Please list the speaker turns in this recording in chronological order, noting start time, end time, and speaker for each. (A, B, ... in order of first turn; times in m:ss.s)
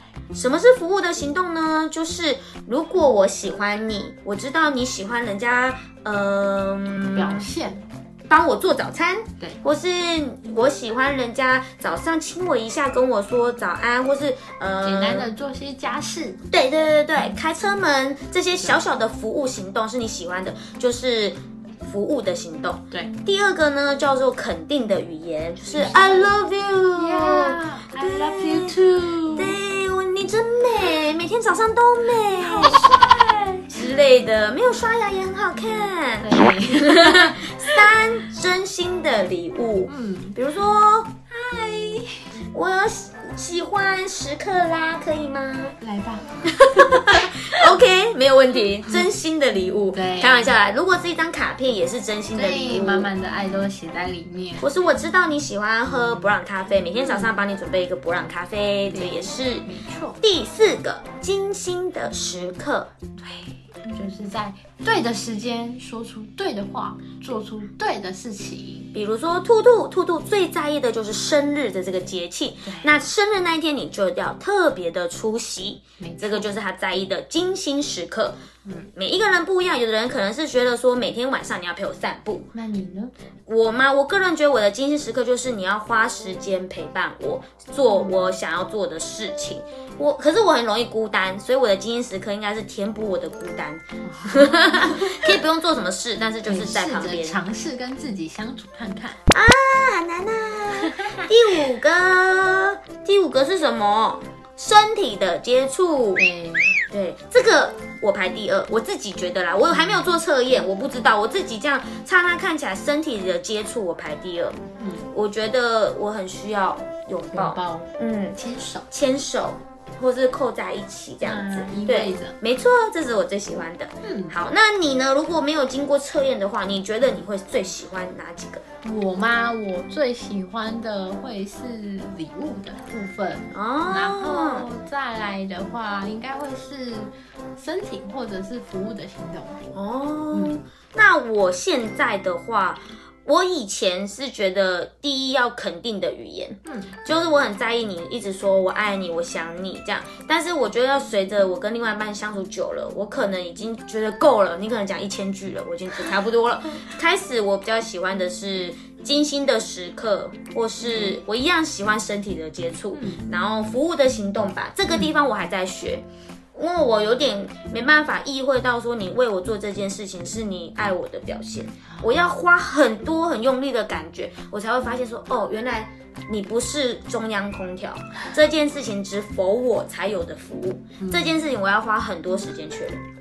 0:00.3-0:07.5 A
0:07.1-0:07.8 B
0:08.3-0:15.3 A
0:14.8-0:16.4 B
0:16.5-0:28.7 A
0:25.7-0:26.4 B
0:27.0-0:29.6 B
0:29.3-0:32.9 A
0:32.3-0:33.8 B
0:33.7-0:41.1 A
0:36.2-0:38.0 B
0:39.9-0:40.4 B
0:41.3-0:42.3 B
0:42.5-0:45.8 A
0:45.8-0:47.3 B
0:46.5-0:53.1 A
0:49.9-0:50.6 B
0:52.3-0:54.7 B
0:54.6-0:59.7 A
0:57.0-0:57.3 B
0:58.9-1:00.2 B
1:00.2-1:02.9 A
1:03.2-1:08.9 B
1:08.9-1:18.4 A
1:12.6-1:12.9 B
1:16.0-1:16.5 B
1:19.0-1:22.5 A
1:22.5-1:23.1 B
1:23.5-1:37.4 A
1:27.9-1:28.3 B
1:34.0-1:35.3 B
1:36.4-1:39.2 B
1:39.3-1:46.2 A
1:46.2-1:46.8 B
1:46.9-1:54.6 A
1:49.7-1:50.0 B
1:54.8-1:55.1 B
1:55.1-1:58.4 A
1:57.3-1:58.9 B
1:58.9-2:08.6 A
2:01.2-2:02.4 B
2:04.0-2:04.3 B
2:08.8-2:19.6 B
2:13.5-2:14.6 A
2:19.7-3:03.0 A
2:20.3-2:20.6 B
2:26.6-2:26.9 B
2:40.9-2:41.1 B
2:42.9-2:43.2 B
3:01.0-3:01.5 B